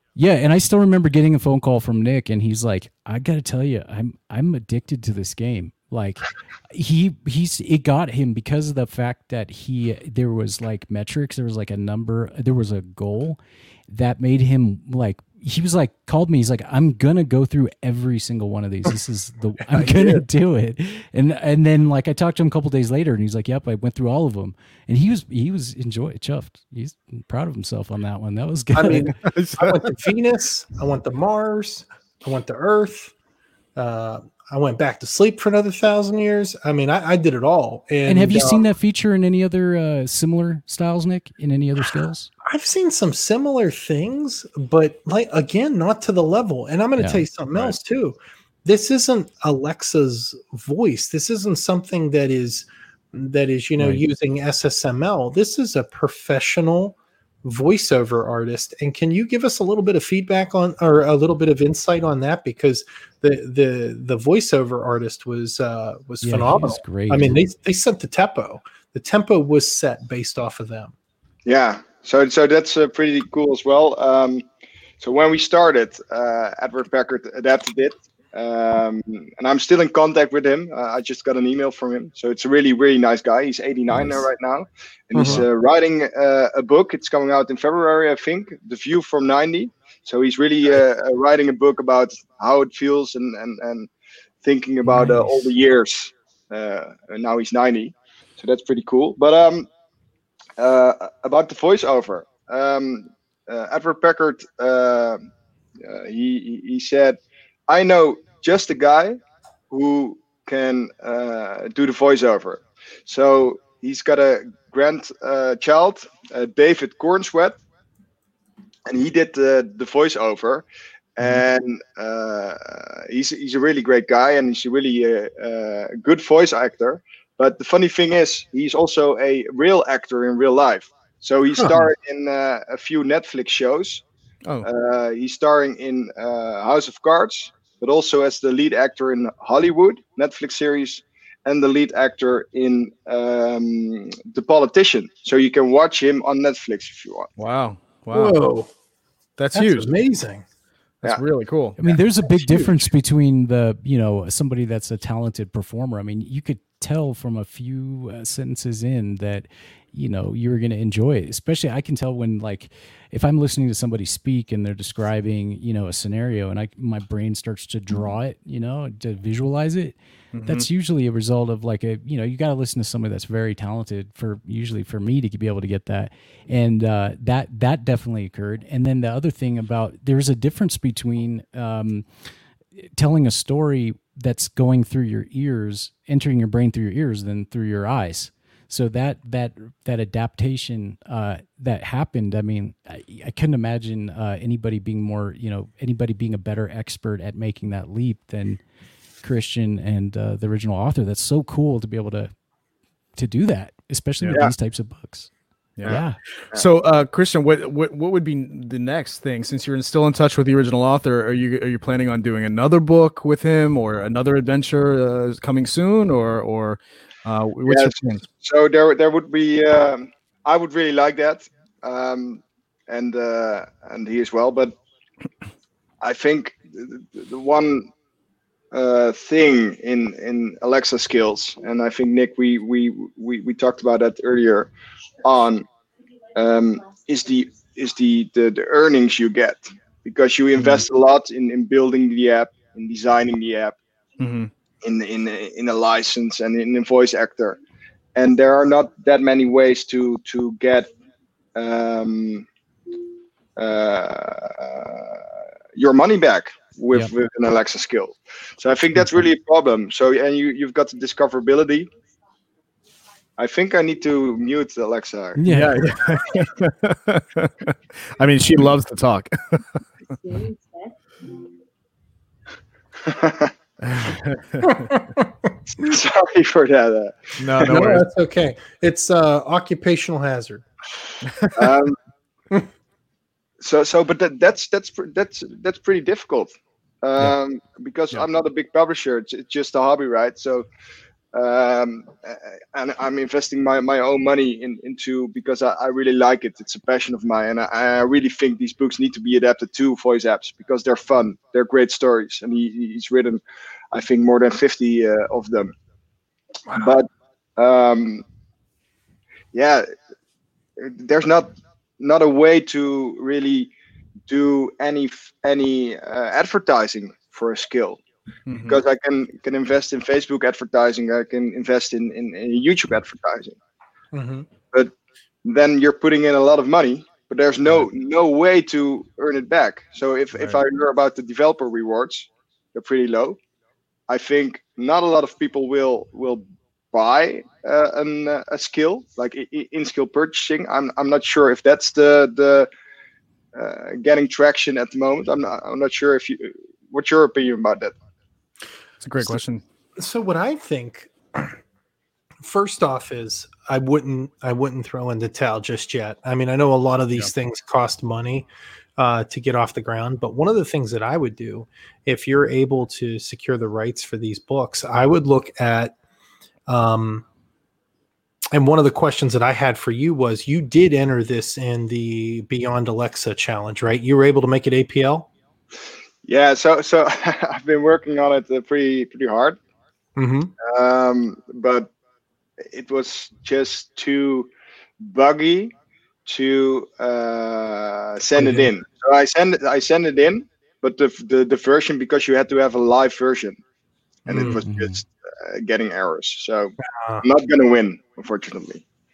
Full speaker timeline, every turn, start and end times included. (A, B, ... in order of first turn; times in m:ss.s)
0:00.2-0:29.1 A
0:19.7-0:20.2 B
0:28.7-0:33.1 B
0:29.2-0:29.8 C
0:33.8-0:38.7 B
0:38.0-0:42.3 A
0:42.4-1:10.9 B
0:47.0-0:47.2 A
1:06.2-1:07.4 A
1:11.4-1:14.4 D
1:15.0-1:33.9 D
1:25.1-1:25.4 B
1:34.4-1:39.7 D
1:34.9-1:35.2 B
1:40.6-1:45.2 D
1:45.8-1:57.6 D
1:58.8-2:00.6 D
2:01.2-2:14.0 D
2:11.5-2:11.9 B
2:14.6-2:27.3 D
2:27.4-2:28.5 C
2:28.1-2:28.7 B
2:29.4-2:29.9 C
2:29.5-2:30.4 B
2:31.0-2:31.8 C
2:31.8-2:49.9 A
2:32.2-2:32.8 B
2:50.3-2:50.6 C
2:50.4-3:02.0 A
3:02.8-3:18.6 A
3:19.2-3:22.3 A
3:23.2-3:25.3 A
3:25.8-3:38.2 C
3:25.8-3:26.2 A
3:25.8-3:26.7 D
3:37.6-3:44.7 D
3:46.0-3:47.9 D
3:48.7-3:54.7 D
3:55.2-3:55.7 D
3:56.4-4:03.8 D
4:00.6-4:00.8 C
4:04.2-4:04.5 C
4:04.8-4:07.6 D
4:08.2-4:10.9 D
4:11.6-4:12.4 D
4:13.6-4:15.2 D
4:15.8-4:21.9 D
4:23.4-4:25.4 D
4:25.4-4:25.9 A
4:25.5-4:30.1 C
4:33.0-4:33.5 D
4:33.8-4:34.9 C
4:34.9-4:35.3 B
4:35.8-4:37.9 D
4:37.4-4:38.0 C
4:37.6-4:40.6 B
4:41.5-4:42.0 D
4:43.6-4:46.5 D
4:47.0-4:50.7 D
4:51.3-5:03.4 D
5:03.9-5:05.7 D
5:06.7-5:06.9 B
5:06.7-5:08.2 D
5:09.5-5:09.8 D
5:10.8-5:13.7 D
5:14.3-5:18.0 D
5:18.5-5:18.8 C
5:18.6-5:23.6 D
5:24.1-5:24.5 B
5:25.4-5:33.4 D
5:34.1-5:42.7 D
5:43.5-5:47.9 D
5:49.0-5:49.6 C
5:50.0-5:51.6 B
5:52.4-6:05.9 B
6:06.7-6:07.2 B
6:08.5-6:15.3 B
6:16.2-6:19.6 D
6:20.2-6:20.5 B
6:20.6-6:21.9 D
6:22.7-6:24.5 D
6:25.0-6:25.7 D
6:26.2-6:33.6 D
6:28.3-6:28.7 B
6:34.2-6:38.8 D
6:34.3-6:34.6 C
6:34.6-6:35.0 A
6:37.0-6:37.2 B